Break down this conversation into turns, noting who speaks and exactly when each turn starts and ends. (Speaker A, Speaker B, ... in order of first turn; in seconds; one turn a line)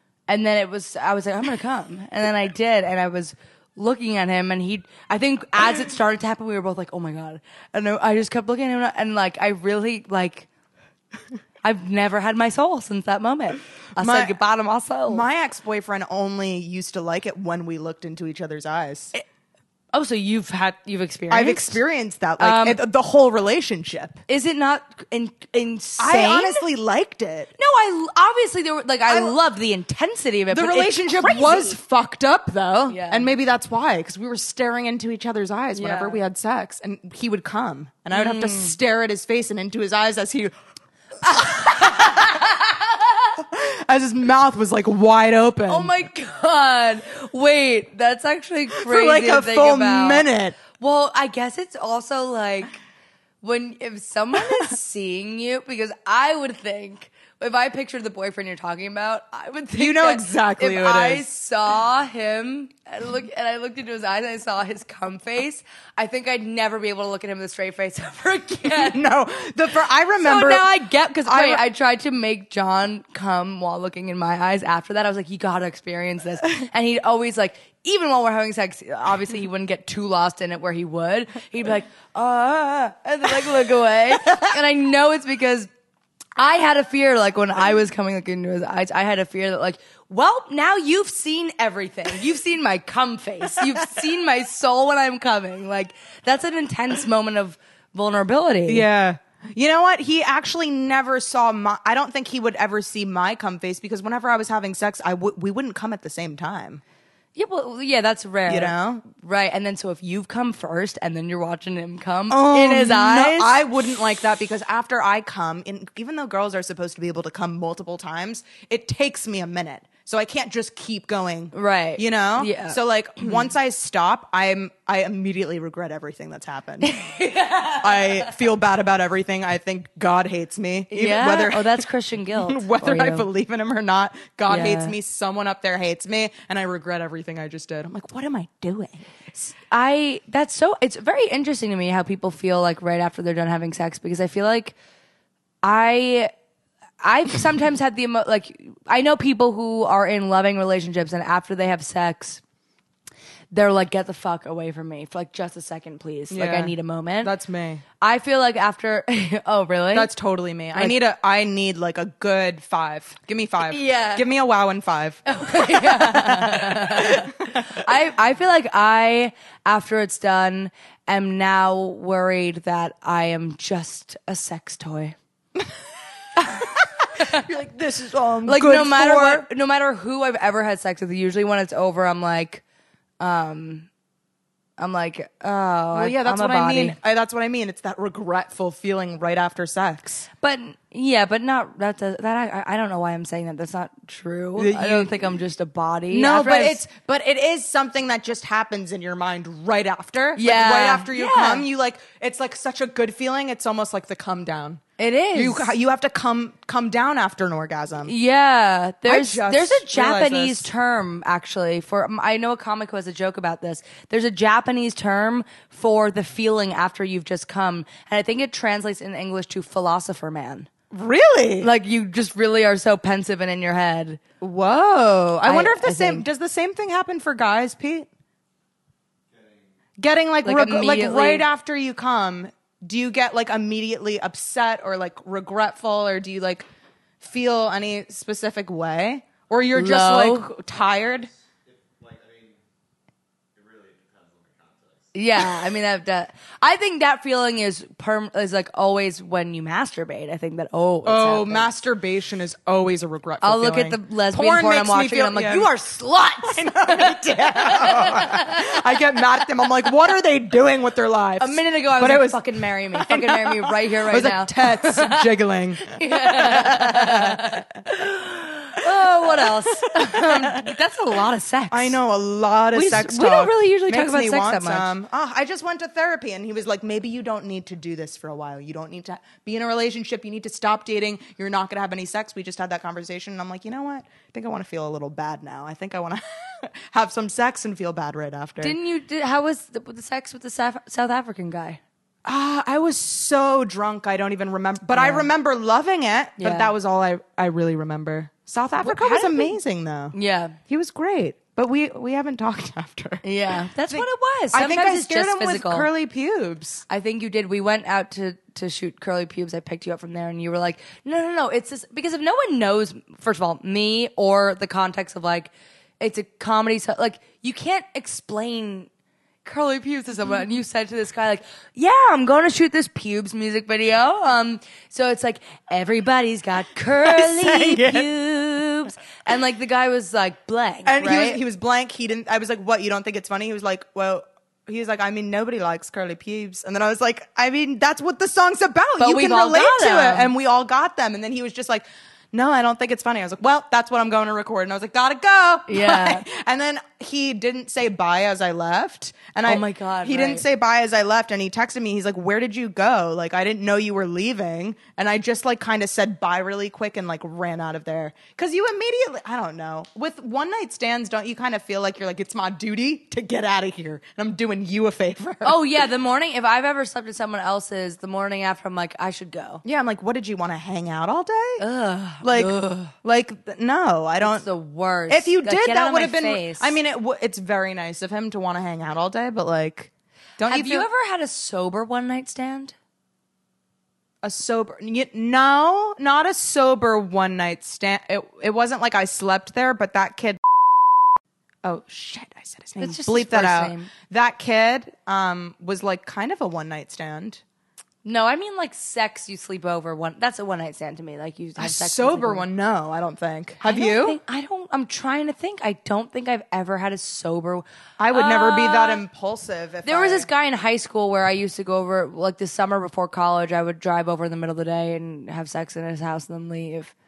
Speaker A: 0.3-10.5
Speaker A: 11.6-15.2
Speaker B: 14.0-14.4
Speaker B: 15.1-19.1
Speaker A: 19.9-21.8
Speaker B: 21.3-24.2
Speaker A: 22.4-22.8
Speaker A: 24.3-26.6
Speaker B: 26.0-27.5
Speaker A: 27.6-31.8
Speaker B: 29.1-29.4
Speaker B: 30.5-40.5
Speaker A: 32.9-33.3
Speaker A: 35.7-36.2
Speaker A: 38.1-38.7
Speaker A: 41.2-43.4
Speaker B: 41.2-42.5
Speaker B: 43.4-45.9
Speaker A: 45.7-52.8
Speaker B: 48.7-50.6
Speaker A: 53.4-69.0
Speaker B: 59.7-61.3
Speaker B: 68.7-70.7
Speaker A: 70.2-85.7
Speaker B: 71.2-71.6
Speaker A: 86.3-98.8
Speaker B: 98.7-106.8
Speaker A: 107.3-113.6
Speaker B: 108.5-109.0
Speaker B: 112.3-126.9
Speaker A: 121.5-122.8
Speaker A: 126.8-128.3
Speaker B: 127.8-139.2
Speaker A: 130.9-133.3
Speaker A: 134.5-134.9
Speaker A: 139.3-144.8
Speaker A: 145.6-146.3
Speaker A: 147.0-152.4
Speaker A: 153.5-157.3
Speaker B: 156.3-157.8
Speaker A: 158.0-160.1
Speaker B: 159.9-167.8
Speaker A: 163.7-164.2
Speaker A: 165.2-175.2
Speaker A: 176.4-177.4
Speaker B: 177.1-179.5
Speaker A: 178.4-182.6
Speaker A: 183.2-183.9
Speaker A: 184.8-186.9
Speaker B: 185.9-190.3
Speaker A: 190.4-196.8
Speaker B: 194.6-195.2
Speaker B: 196.1-204.8
Speaker A: 200.3-201.6
Speaker A: 205.0-205.7
Speaker B: 205.3-208.1
Speaker A: 208.0-220.7
Speaker B: 209.0-210.7
Speaker B: 220.9-221.7
Speaker A: 221.6-224.2
Speaker B: 224.4-228.1
Speaker A: 225.4-226.2
Speaker C: 229.3-229.7
Speaker B: 230.0-236.6
Speaker A: 230.4-231.5
Speaker B: 237.2-241.3
Speaker A: 239.7-240.5
Speaker C: 240.8-242.6
Speaker C: 243.5-245.1
Speaker A: 245.1-251.7
Speaker B: 251.0-255.7
Speaker A: 253.4-256.6
Speaker B: 256.4-267.6
Speaker A: 257.5-258.6
Speaker A: 261.4-265.3
Speaker A: 265.9-272.0
Speaker B: 269.0-270.8
Speaker B: 271.7-288.8
Speaker A: 272.7-274.9
Speaker A: 288.6-291.8
Speaker B: 292.2-300.1
Speaker A: 294.9-295.3
Speaker A: 296.4-296.7
Speaker A: 298.8-299.6
Speaker A: 300.1-300.6
Speaker B: 300.7-306.8
Speaker A: 303.2-305.9
Speaker A: 306.9-318.9
Speaker A: 319.4-331.4
Speaker B: 327.0-328.1
Speaker B: 330.9-365.6
Speaker A: 339.0-340.3
Speaker A: 345.7-346.2
Speaker A: 349.4-350.4
Speaker A: 365.4-369.6
Speaker B: 369.6-371.6
Speaker A: 371.6-372.9
Speaker B: 372.2-374.5
Speaker A: 374.2-376.8
Speaker B: 375.1-380.9
Speaker A: 380.5-382.7
Speaker B: 384.2-390.6
Speaker B: 391.6-397.4
Speaker A: 392.8-393.9
Speaker A: 398.0-402.4
Speaker B: 401.6-404.2
Speaker A: 403.6-409.0
Speaker B: 408.0-410.3
Speaker A: 409.8-416.9